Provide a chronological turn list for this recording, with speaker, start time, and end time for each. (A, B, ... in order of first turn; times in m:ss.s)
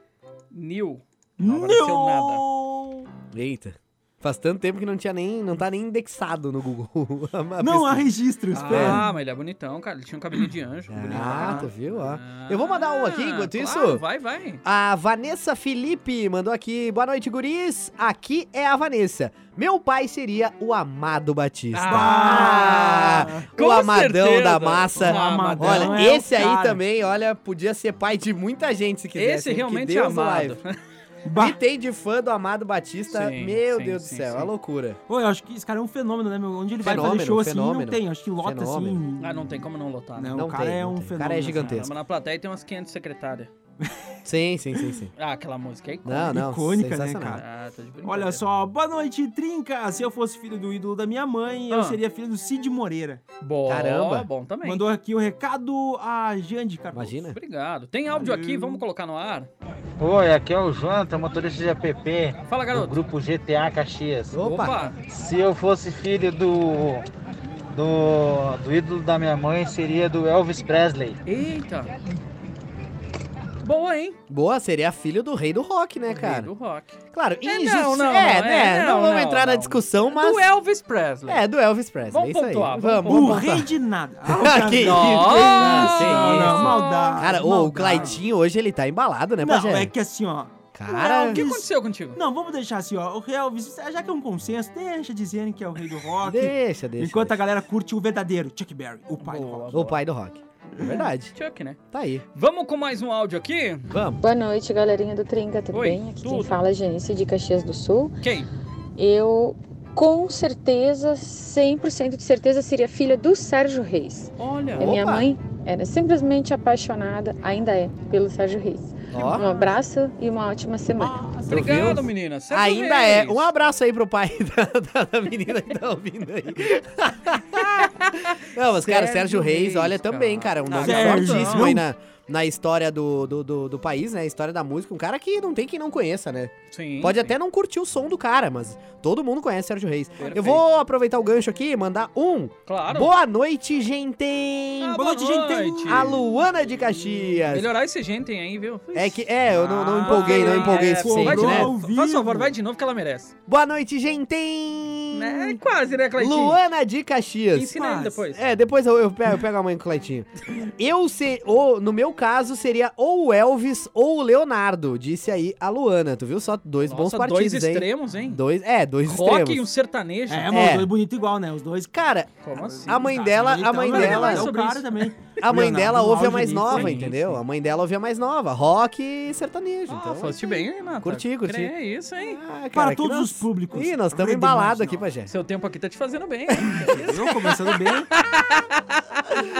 0:00.5-0:02.4 A
0:01.4-0:03.1 B
0:03.3-0:08.1 C
0:07.6-0:09.1 B
0:08.5-0:14.6 A
0:08.7-0:09.0 C
0:10.9-0:14.0 C
0:11.1-0:11.7 B
0:14.6-0:30.6 C
0:21.7-0:26.2 A
0:21.9-0:23.4 B
0:25.0-0:26.8 B
0:29.1-0:30.7 A
0:31.2-0:31.6 B
0:31.4-0:35.0 C
0:33.1-0:34.5 A
0:35.1-0:39.6 B
0:36.8-0:39.0 C
0:39.2-0:40.4 A
0:40.2-0:41.8 B
0:40.3-0:41.9 C
0:41.6-0:43.5 A
0:43.8-0:44.1 B
0:44.2-0:45.1 C
0:45.2-0:46.4 A
0:46.0-0:47.4 C
0:46.2-0:47.4 B
0:47.3-0:48.4 A
0:48.0-0:53.2 B
0:51.7-0:52.0 A
0:53.4-0:54.8 A
0:53.6-0:54.3 C
0:54.6-0:57.3 B
0:56.9-0:57.4 C
0:57.3-0:59.5 A
0:58.2-0:58.8 B
1:00.1-1:02.0 D
1:02.5-1:03.0 A
1:03.2-1:04.2 D
1:04.3-1:04.8 C
1:04.3-1:05.0 A
1:05.4-1:06.3 D
1:09.8-1:11.0 D
1:11.2-1:12.0 A
1:13.6-1:14.2 A
1:14.3-1:16.5 C
1:16.1-1:21.4 A
1:17.1-1:20.4 C
1:21.3-1:23.7 C
1:22.1-1:23.4 A
1:23.0-1:28.2 B
1:24.2-1:29.9 C
1:24.6-1:28.2 A
1:29.4-1:30.6 B
1:30.7-1:31.4 C
1:30.9-1:32.2 A
1:31.2-1:39.9 B
1:36.2-1:37.4 C
1:39.2-1:40.0 A
1:39.7-1:41.3 C
1:40.8-1:41.0 B
1:41.3-1:41.8 A
1:41.9-1:42.2 C
1:42.3-1:43.9 A
1:43.9-1:44.2 C
1:44.2-1:48.1 E
1:45.7-1:46.6 A
1:48.2-1:48.5 A
1:49.0-2:01.2 E
1:54.4-1:55.0 A
1:54.8-1:55.3 C
1:59.1-1:59.4 C
2:01.0-2:01.9 B
2:01.4-2:03.5 A
2:01.5-2:25.0 C
2:07.6-2:11.8 A
2:10.8-2:11.8 B
2:16.7-2:17.3 A
2:20.2-2:20.6 A
2:22.7-2:23.1 A
2:24.8-2:26.1 A
2:25.0-2:26.2 B
2:25.8-2:27.7 C
2:27.5-2:33.3 A
2:28.9-2:31.7 C
2:30.0-2:32.5 B
2:33.5-2:35.6 C
2:35.1-2:36.6 A
2:36.2-2:37.8 C
2:37.5-2:38.4 A
2:37.7-2:38.2 B
2:38.3-2:49.7 C
2:46.8-2:48.4 A
2:49.0-2:50.5 A
2:50.3-2:51.9 B
2:50.5-2:50.9 C
2:51.9-2:52.3 C
2:52.4-2:53.2 A
2:52.5-2:57.3 B
2:52.9-2:54.5 C
2:53.8-2:55.1 A
2:55.4-3:00.4 C
2:56.6-2:57.2 A
2:59.9-3:02.4 A
3:01.0-3:01.7 C
3:02.3-3:05.3 C
3:02.7-3:05.0 B
3:05.3-3:09.0 A
3:06.8-3:08.1 B